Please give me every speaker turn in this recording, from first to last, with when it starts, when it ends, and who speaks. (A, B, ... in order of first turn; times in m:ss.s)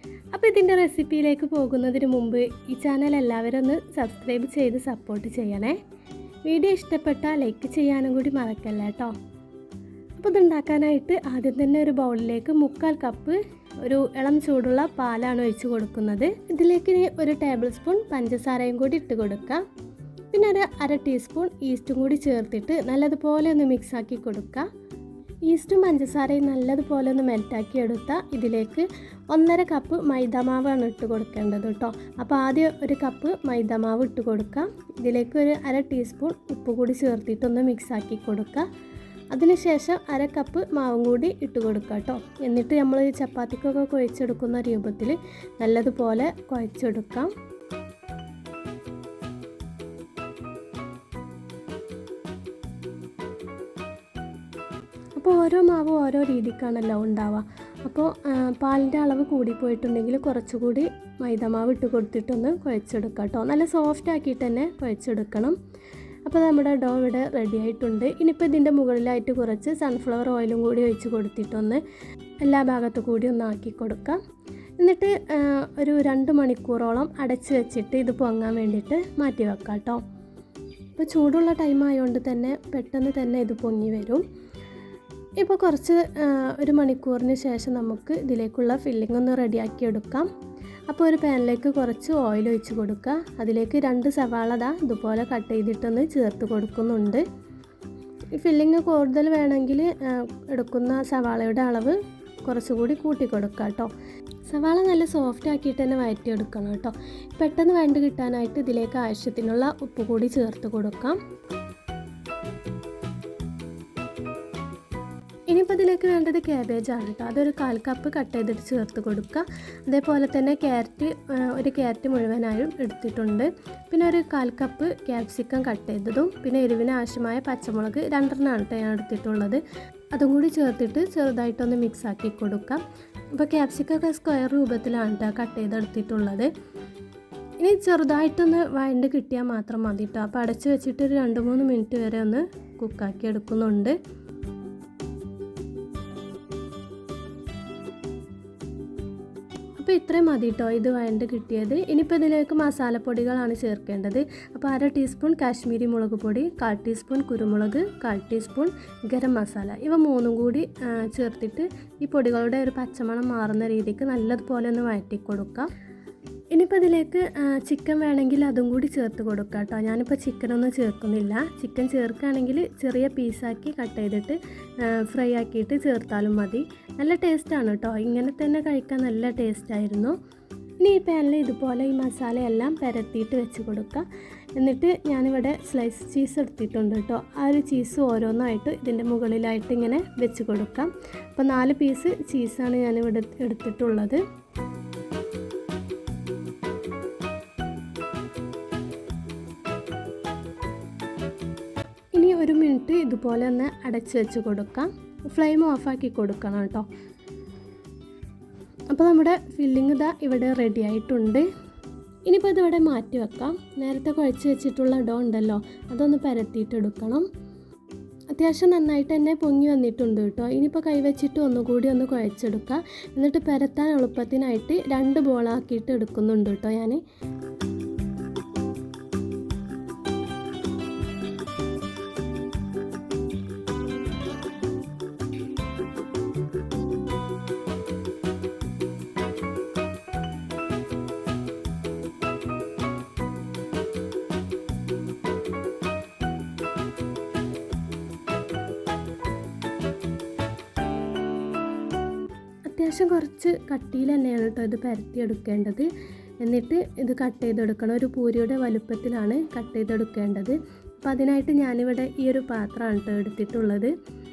0:00.3-0:05.8 A
0:06.5-0:09.2 A
0:10.2-0:19.6 A
0:20.3-0:24.7 A
0:25.4-0:38.7 A
0:39.3-0:47.3 A
0:55.2-1:05.6 A
1:06.2-1:11.8 A
1:12.4-1:14.2 A
1:14.8-1:20.0 A
1:21.0-1:24.2 A
1:25.4-1:30.3 A
1:30.9-1:37.2 A
1:38.4-1:43.9 A
1:44.5-1:51.2 A
1:55.5-2:09.6 A
2:10.1-2:12.8 A
2:13.3-2:16.5 A
2:17.6-2:24.0 A
2:29.8-2:45.7 A
2:46.5-3:00.1 A
3:00.8-3:14.2 A
3:22.1-3:26.8 A
3:28.9-3:31.4 A
3:32.3-3:37.2 A
3:38.3-3:47.0 A
4:12.7-4:15.9 A
4:16.4-4:23.9 A